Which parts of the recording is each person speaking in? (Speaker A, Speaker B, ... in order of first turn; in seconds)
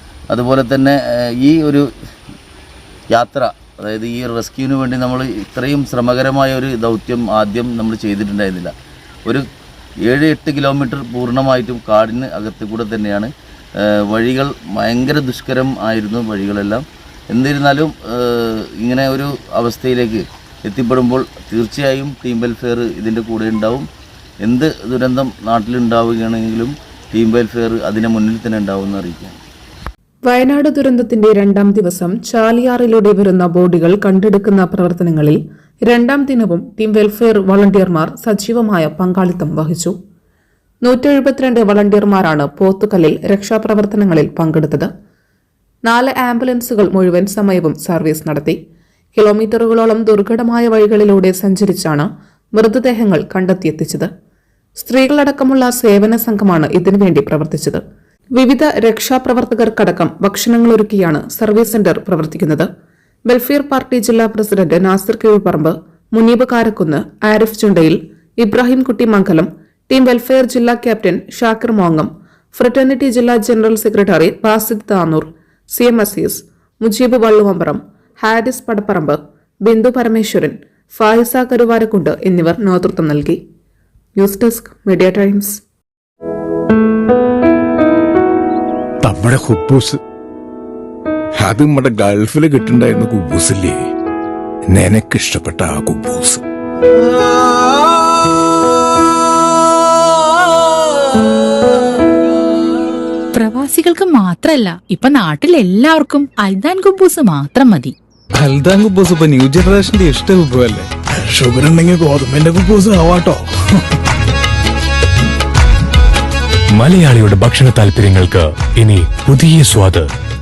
Speaker A: 0.3-1.9, 3.1-8.7, 10.1-13.3, 13.8-23.9, 24.4-29.4
Speaker B: 30.2-39.9, 40.8-44.9, 45.9-48.6, 49.2-54.1, 54.8-57.8, 58.4-62.7, 63.3-83.4, 84.2-85.6
Speaker C: 89.0-90.0, 91.4-93.8, 94.7-96.4, 111.3-113.5
Speaker D: 103.3-107.9
Speaker E: 108.4-110.9
Speaker F: 116.8-120.1